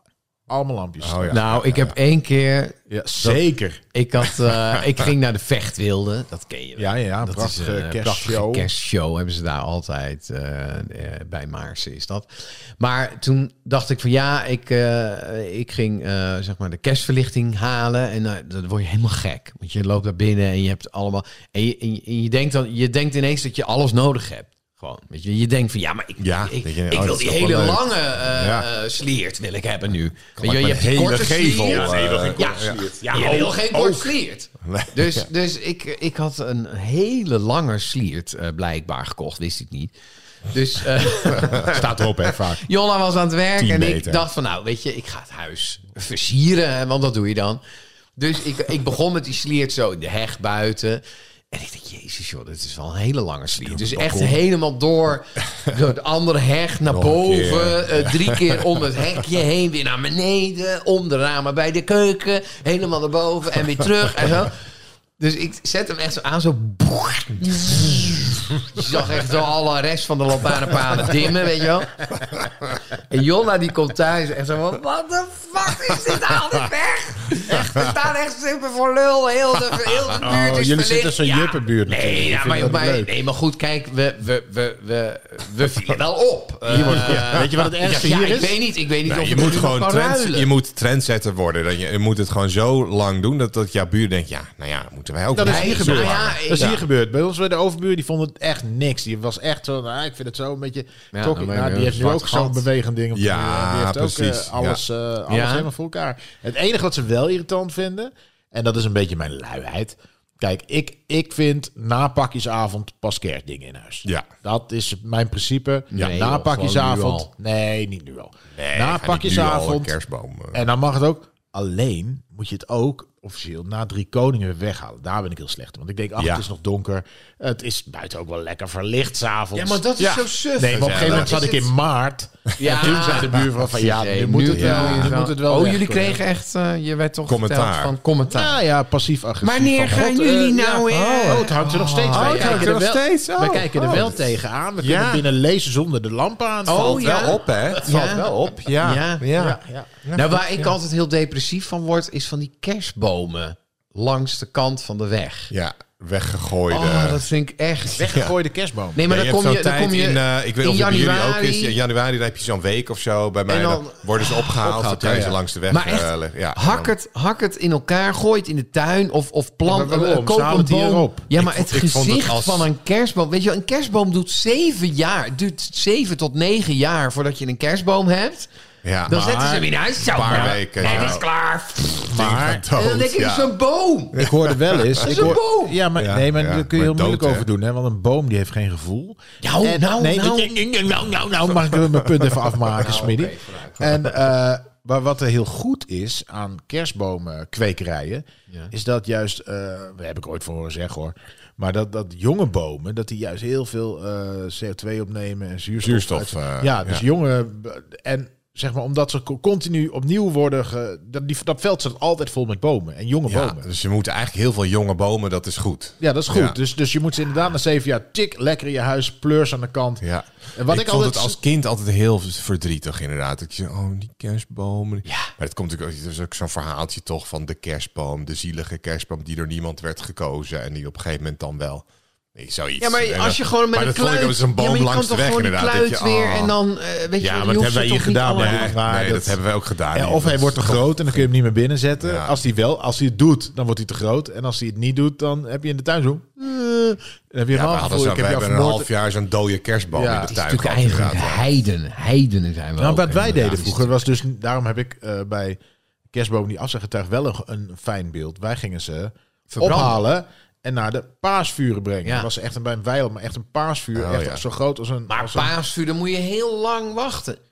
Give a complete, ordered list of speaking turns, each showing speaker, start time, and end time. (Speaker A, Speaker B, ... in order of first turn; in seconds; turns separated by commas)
Speaker A: 0.5-1.4, Speaker B: 1.0-1.9, Speaker C: 1.3-3.4, Speaker A: 2.9-3.8, Speaker C: 3.9-39.9, Speaker A: 6.8-8.7, Speaker B: 26.2-28.7, Speaker B: 30.4-33.4, Speaker A: 30.9-34.1, Speaker B: 34.6-35.3, Speaker C: 40.5-41.9, Speaker A: 41.4-42.6, Speaker C: 42.6-47.6, Speaker B: 43.6-44.2, Speaker C: 48.2-64.5, Speaker B: 53.8-54.4, Speaker B: 56.9-58.6, Speaker C: 65.2-72.2, Speaker C: 72.9-90.5, Speaker A: 80.2-83.1, Speaker A: 86.7-88.6, Speaker B: 86.8-87.4, Speaker B: 89.0-96.8, Speaker A: 95.3-120.0, Speaker C: 95.4-96.7, Speaker C: 101.1-102.7, Speaker B: 103.1-104.8, Speaker C: 105.3-105.7, Speaker C: 115.9-117.3, Speaker B: 118.5-120.7, Speaker A: 120.5-136.2, Speaker B: 126.2-126.4, Speaker C: 129.5-131.7, Speaker B: 130.7-131.4, Speaker C: 132.6-138.6, Speaker B: 134.5-135.2, Speaker B: 137.3-137.9, Speaker A: 138.3-148.4, Speaker C: 139.4-142.8, Speaker B: 140.9-144.3, Speaker B: 144.8-145.3, Speaker C: 146.7-149.4, Speaker B: 146.7-150.7, Speaker A: 149.3-150.0, Speaker C: 150.1-155.5, Speaker B: 155.5-157.2, Speaker C: 156.7-158.1, Speaker A: 158.0-159.0, Speaker C: 158.9-161.8, Speaker B: 159.1-166.9, Speaker C: 163.5-178.5, Speaker A: 165.0-165.4, Speaker A: 169.6-171.3, Speaker B: 171.3-172.7, Speaker B: 178.8-179.3, Speaker C: 179.1-182.2, Speaker A: 179.1-179.7, Speaker B: 180.0-181.2, Speaker A: 180.3-181.2, Speaker A: 182.1-182.7, Speaker B: 182.1-183.5, Speaker C: 182.7-184.2, Speaker B: 184.1-185.4, Speaker A: 184.2-213.7, Speaker C: 185.0-185.8, Speaker B: 186.0-187.5, Speaker C: 189.4-190.5, Speaker B: 192.3-192.6, Speaker C: 192.8-193.9, Speaker B: 205.8-207.0, Speaker B: 213.3-216.6, Speaker A: 216.0-221.4, Speaker B: 220.0-236.6, Speaker C: 225.1-225.3, Speaker C: 232.8-238.7, Speaker A: 237.2-239.4, Speaker B: 238.4-241.2, Speaker A: 239.9-248.9, Speaker B: 242.0-242.4, Speaker B: 247.5-251.5, Speaker A: 249.9-250.3, Speaker C: 250.3-254.1, Speaker A: 252.8-255.6, Speaker A: 256.1-265.5, Speaker C: 259.5-260.0, Speaker C: 262.0-262.3, Speaker B: 263.9-264.4, Speaker C: 265.1-267.4